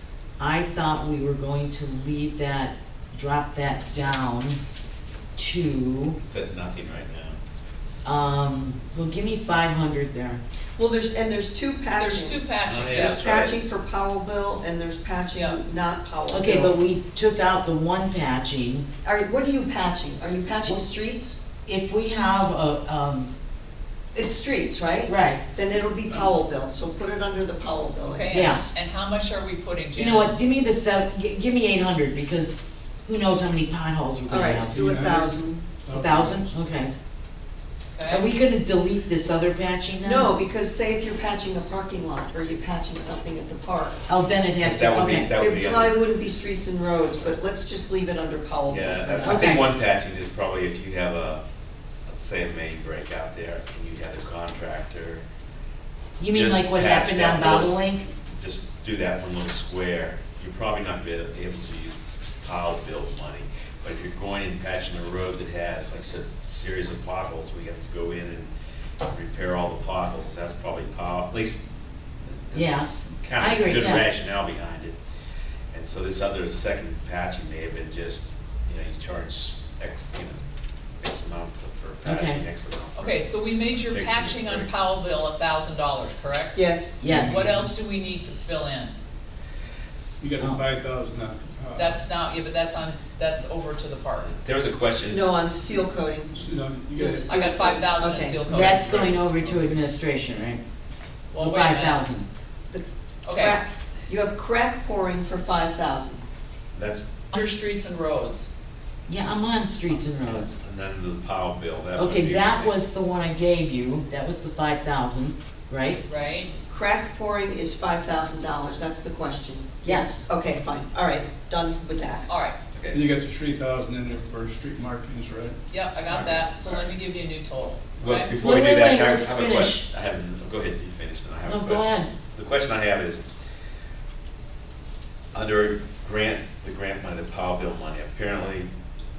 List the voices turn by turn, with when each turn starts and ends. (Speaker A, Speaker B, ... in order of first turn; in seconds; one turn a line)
Speaker A: 0.4-4.6
Speaker A: 5.3-6.2
Speaker B: 6.2-7.4
Speaker A: 8.0-10.4
Speaker C: 10.8-16.7
Speaker D: 12.0-13.2
Speaker B: 12.6-13.6
Speaker A: 16.3-18.9
Speaker C: 19.0-21.4
Speaker A: 21.6-23.3
Speaker C: 24.1-28.7
Speaker A: 25.1-25.4
Speaker D: 28.1-30.3
Speaker A: 28.3-28.6
Speaker A: 29.9-34.8
Speaker C: 34.3-35.7
Speaker E: 34.7-36.5
Speaker A: 35.9-36.9
Speaker D: 37.9-38.4
Speaker A: 38.1-40.3
Speaker C: 40.0-44.0
Speaker A: 44.1-45.3
Speaker B: 44.6-46.0
Speaker C: 45.4-49.6
Speaker B: 48.7-51.4
Speaker A: 49.2-49.7
Speaker B: 52.1-55.2
Speaker A: 56.2-58.0
Speaker B: 56.3-68.5
Speaker B: 69.0-71.7
Speaker B: 72.3-74.9
Speaker A: 72.5-74.0
Speaker B: 75.7-80.4
Speaker B: 81.0-83.3
Speaker A: 82.0-82.4
Speaker D: 82.9-89.0
Speaker B: 83.8-84.7
Speaker C: 86.5-87.0
Speaker A: 87.0-87.5
Speaker E: 87.0-87.7
Speaker E: 90.2-92.0
Speaker D: 91.8-94.3
Speaker B: 94.2-95.2
Speaker C: 95.1-98.4
Speaker E: 96.3-99.7
Speaker D: 97.3-98.8
Speaker A: 98.5-100.6
Speaker D: 101.3-102.0
Speaker A: 101.4-102.2
Speaker C: 102.7-106.2
Speaker D: 103.2-103.6
Speaker B: 106.7-107.1
Speaker D: 107.3-108.5
Speaker A: 109.1-110.6
Speaker B: 110.3-112.8
Speaker A: 112.0-116.0
Speaker D: 116.1-116.5
Speaker C: 116.7-122.3
Speaker A: 119.8-120.2
Speaker D: 122.3-122.6
Speaker B: 122.7-123.0
Speaker E: 122.9-125.6
Speaker D: 125.7-128.3
Speaker B: 126.1-126.9
Speaker B: 128.0-133.3
Speaker A: 128.4-129.8
Speaker A: 131.5-132.1
Speaker B: 135.3-138.7